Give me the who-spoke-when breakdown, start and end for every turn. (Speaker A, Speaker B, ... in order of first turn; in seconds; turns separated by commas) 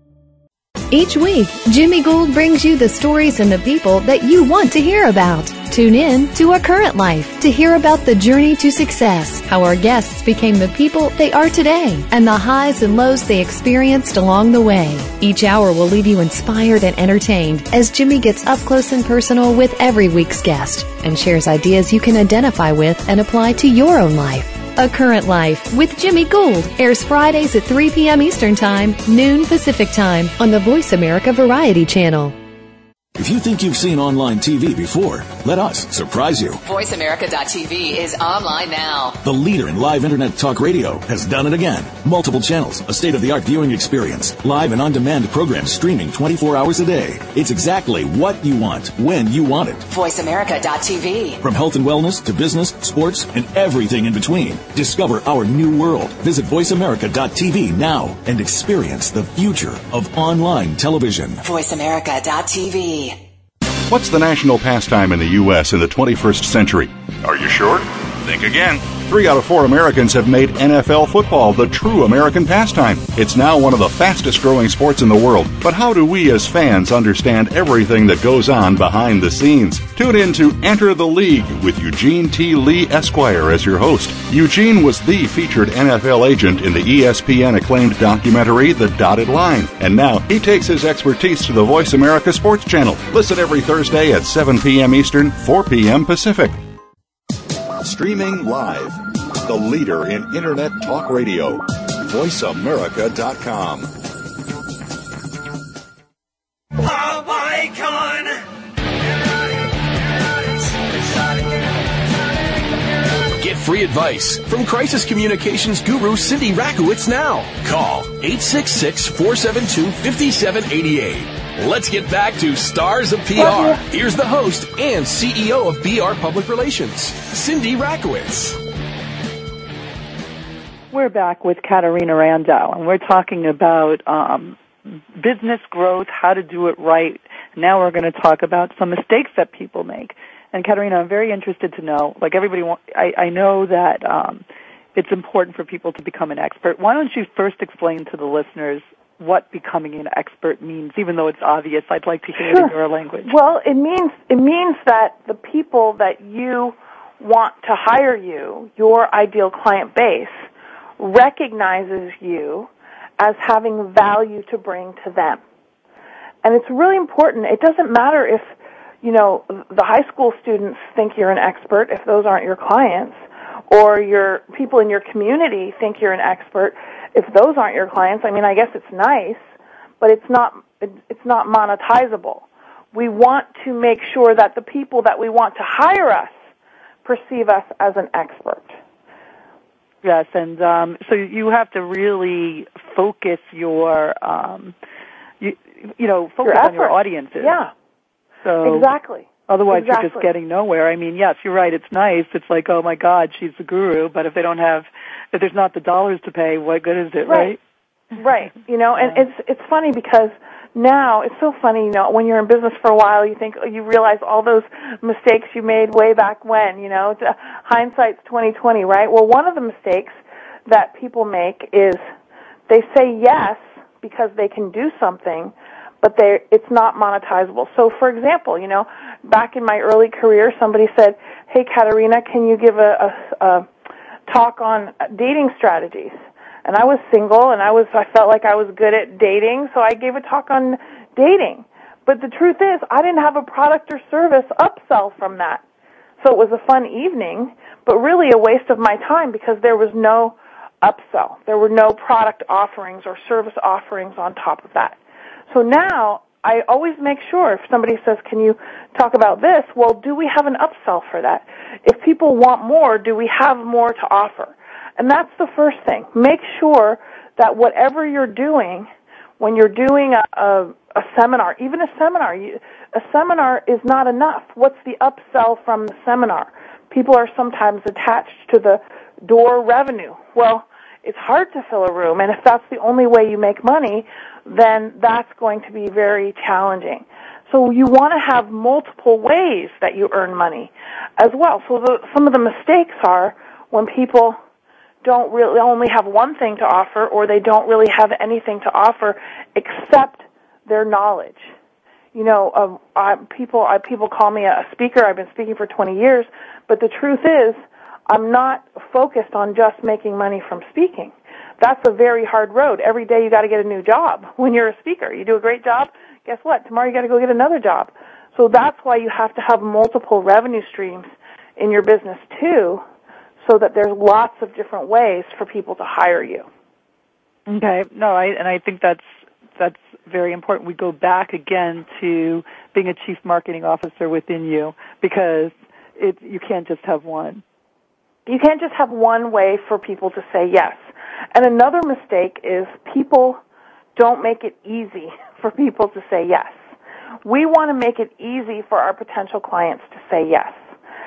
Speaker A: 0.9-32.4, Speaker B: 33.2-36.6, Speaker C: 36.6-39.2, Speaker B: 39.2-49.9, Speaker C: 49.9-51.4, Speaker B: 51.4-61.4, Speaker C: 61.4-63.2, Speaker D: 63.9-96.6, Speaker D: 97.8-103.9, Speaker E: 113.3-128.6, Speaker F: 123.3-123.8, Speaker G: 130.9-134.6, Speaker G: 135.2-144.4, Speaker G: 144.9-153.3, Speaker F: 152.4-152.7, Speaker F: 153.2-160.4, Speaker F: 161.0-165.4, Speaker F: 166.4-168.5, Speaker F: 169.0-179.4, Speaker F: 180.0-186.3, Speaker F: 187.0-188.7, Speaker G: 190.0-194.8, Speaker G: 195.4-197.5, Speaker F: 196.4-197.7, Speaker G: 198.4-198.9, Speaker F: 198.6-200.3, Speaker G: 199.5-207.6, Speaker F: 207.2-207.6, Speaker F: 208.2-222.0, Speaker F: 222.7-233.7, Speaker F: 234.3-236.1, Speaker F: 236.6-245.6, Speaker F: 246.2-255.0, Speaker F: 255.5-268.9, Speaker F: 269.4-294.4, Speaker F: 295.0-301.5, Speaker F: 302.1-322.8, Speaker F: 323.4-326.4, Speaker G: 327.5-337.4, Speaker F: 338.2-343.4, Speaker F: 343.9-346.6, Speaker F: 347.2-350.6